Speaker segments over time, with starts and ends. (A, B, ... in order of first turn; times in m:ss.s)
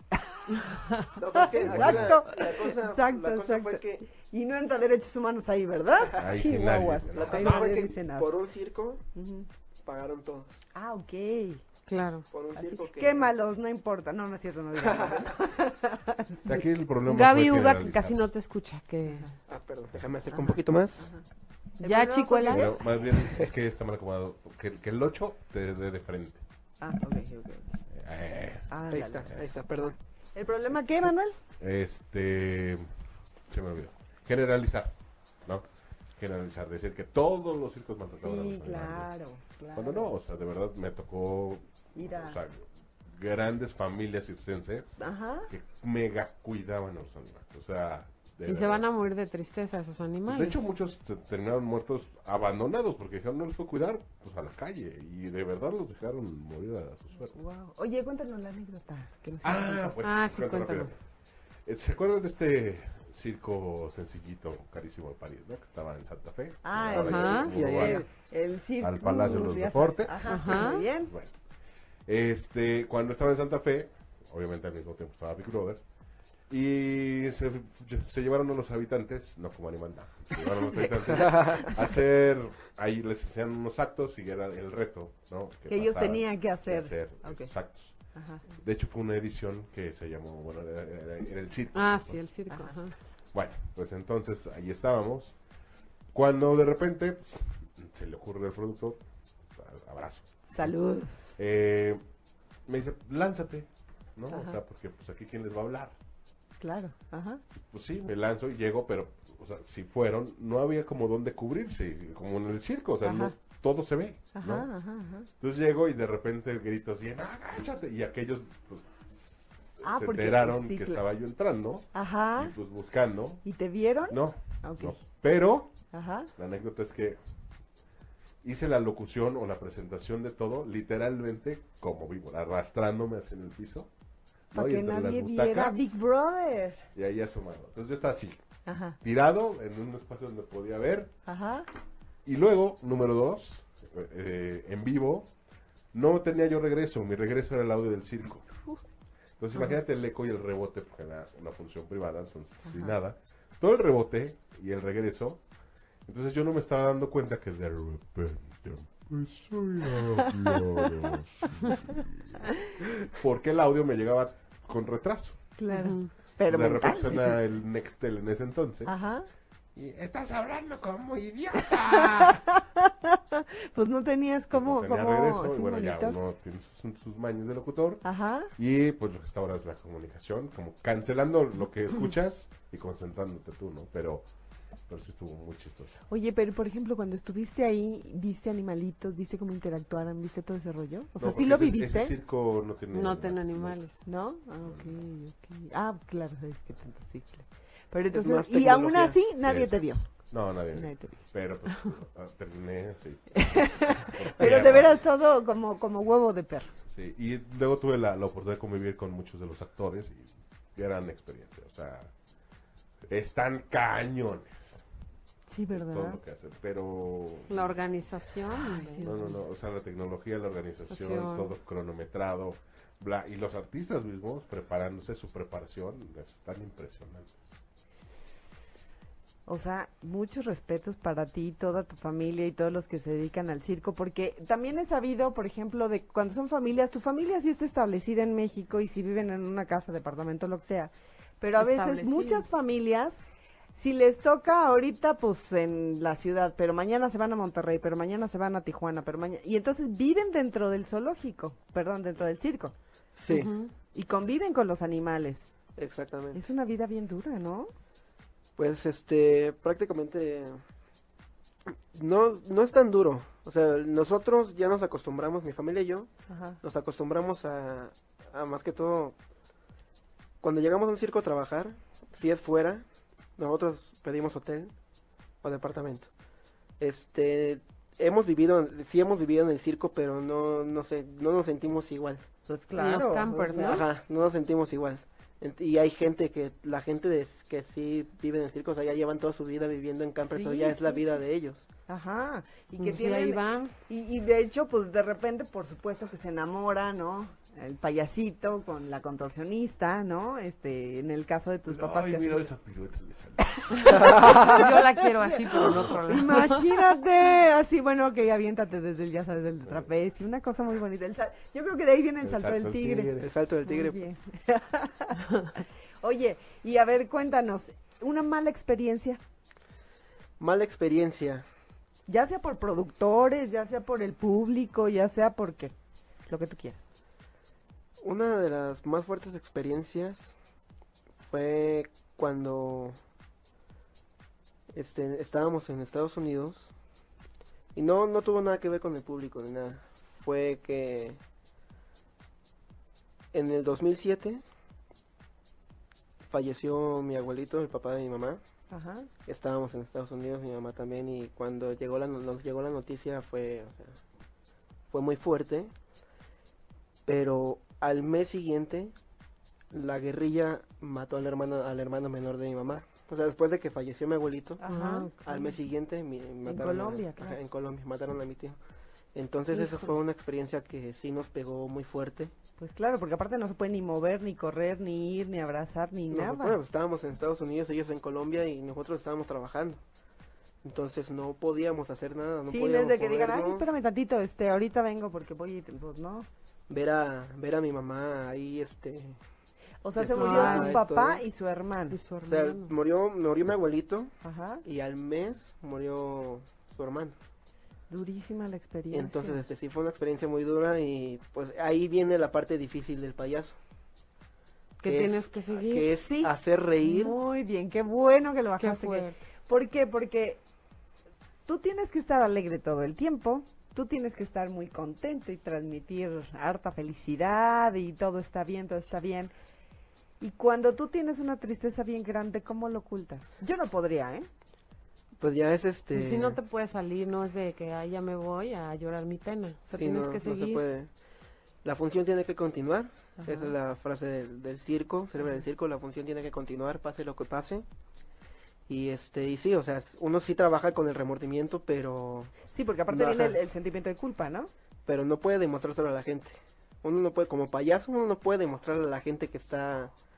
0:01.2-0:04.0 A
0:01.4-0:08.3 B
0:01.6-0:02.2 C
0:06.1-0:07.7 C
0:07.1-0:09.0 A
0:09.2-0:09.5 B
0:09.8-0:10.6 A
0:10.8-0:11.6 B
0:11.9-0:12.3 D
0:12.3-0:13.3 A
0:12.6-0:16.6 B
0:14.8-0:15.3 A
0:16.4-0:18.3 C
0:17.1-0:19.3 D
0:19.1-0:19.3 B
0:19.5-0:21.1 A
0:20.3-0:21.2 B
0:21.8-0:22.8 B
0:21.8-0:22.8 D
0:22.5-0:26.4 C
0:26.8-0:27.8 B
0:27.9-0:28.7 C
0:28.7-0:31.4 B
0:28.9-0:30.0 A
0:31.6-0:32.9 C
0:33.5-0:34.9 C
0:36.2-0:39.1 C
0:38.2-0:40.1 B
0:39.7-0:48.9 C
0:42.0-0:42.4 B
0:45.0-0:45.5 B
0:48.5-0:50.6 D
0:50.3-0:57.4 C
0:57.3-1:00.0 B
0:59.4-1:01.0 C
1:00.0-1:00.9 D
1:01.6-1:08.1 C
1:06.6-1:11.1 B
1:06.9-1:08.1 A
1:07.0-1:07.5 D
1:08.8-1:11.3 C
1:10.3-1:10.8 D
1:12.1-1:15.8 C
1:16.5-1:28.0 C
1:21.1-1:21.7 A
1:25.7-1:27.5 B
1:28.1-1:28.4 B
1:28.5-1:32.2 C
1:31.7-1:33.0 D
1:32.5-1:32.8 B
1:33.3-1:35.4 C
1:36.1-1:39.0 C
1:39.6-1:40.7 C
1:40.5-1:41.4 B
1:41.4-1:42.0 C
1:42.7-1:46.0 C
1:44.3-1:44.6 B
1:46.6-1:47.4 B
1:47.5-1:54.7 C
1:53.0-1:53.4 B
1:54.3-1:55.3 B
1:55.4-2:03.4 C
1:59.8-2:01.0 B
2:01.9-2:02.6 B
2:03.4-2:05.0 B
2:04.1-2:05.7 C
2:05.9-2:06.3 B
2:06.4-2:07.2 C
2:08.4-2:13.9 C
2:14.5-2:16.0 C
2:14.5-2:16.9 B
2:17.0-2:18.4 C
2:18.7-2:19.0 B
2:19.0-2:21.1 C
2:21.3-2:21.7 B
2:22.2-2:25.3 C
2:25.9-2:28.5 C
2:29.4-2:35.4 C
2:32.6-2:33.0 B
2:36.1-2:45.4 C
2:40.2-2:40.9 B
2:45.6-2:47.4 B
2:45.7-2:46.1 D
2:46.5-2:49.0 C
2:48.9-2:49.3 B
2:49.8-2:52.4 C
2:51.8-2:56.2 B
2:54.5-2:58.0 C
2:58.0-2:58.5 B
2:58.6-3:04.3 C
3:04.9-3:06.0 C
3:06.1-3:12.2 B
3:11.2-3:13.8 C
3:12.9-3:14.0 D
3:14.0-3:20.1 B
3:14.6-3:15.0 C
3:18.1-3:19.2 A
3:19.4-3:25.0 C
3:20.7-3:21.2 B
3:23.4-3:26.7 B
3:26.9-3:32.1 C
3:33.1-3:34.8 C
3:35.5-3:36.2 B
3:35.7-3:37.8 C
3:37.5-3:39.1 D
3:38.5-3:39.4 B
3:39.0-3:47.6 C
3:40.9-3:41.5 D
3:49.5-4:03.2 B
4:01.6-4:02.4 D
4:03.8-4:12.7 B
4:13.1-4:13.5 A
4:13.3-4:13.7 D
4:13.9-4:15.5 B
4:15.8-4:16.4 A
4:16.3-4:17.7 B
4:18.6-4:20.6 A
4:21.9-4:26.1 A
4:26.3-4:26.6 B
4:26.6-4:29.2 A
4:30.4-4:32.8 A
4:33.4-4:34.7 A
4:35.4-4:36.1 A
4:36.8-4:42.2 A
4:42.5-4:43.8 B
4:42.8-4:43.8 D
4:43.6-4:51.7 A
4:50.3-4:51.2 B
4:51.9-5:02.5 B
4:52.8-4:53.7 D
5:01.7-5:04.4 C
5:03.7-5:13.1 B
5:04.0-5:06.8 D
5:05.6-5:06.0 C
5:12.2-5:13.3 C
5:13.2-5:14.0 A
5:13.6-5:19.2 B
5:20.4-5:21.4 A
5:22.1-5:25.7 B
5:26.3-5:26.9 B
5:28.0-5:30.4 A
5:31.2-5:33.0 A
5:34.7-5:36.7 A
5:37.8-5:41.2 A
5:43.3-5:44.4 A
5:46.3-5:48.4 A
5:48.7-5:49.1 B
5:49.3-5:54.0 A
5:54.9-5:55.7 A
5:57.1-5:58.9 A
5:59.7-6:04.6 A
6:04.6-6:05.1 B
6:04.7-6:05.5 D
6:05.2-6:08.6 A
6:06.5-6:07.4 B
6:09.2-6:12.3 A
6:12.6-6:16.6 B
6:16.1-6:19.8 A
6:20.6-6:23.7 A
6:22.5-6:26.3 B
6:26.7-6:29.2 A
6:29.8-6:32.0 B
6:30.0-6:31.2 A
6:30.2-6:30.8 D
6:31.9-6:32.7 D
6:32.3-6:37.2 A
6:34.2-6:34.6 B
6:37.9-6:39.4 B
6:38.9-6:43.6 A
6:44.8-6:45.9 D
6:44.8-6:47.1 A
6:46.0-6:50.4 B
6:48.6-6:49.2 D
6:51.5-6:59.3 B
7:00.2-7:04.3 B
7:05.2-7:06.4 A
7:05.9-7:10.6 D
7:09.7-7:10.9 A
7:11.6-7:17.7 A
7:18.7-7:22.4 A
7:22.5-7:24.5 B
7:22.9-7:23.4 A
7:24.9-7:29.9 A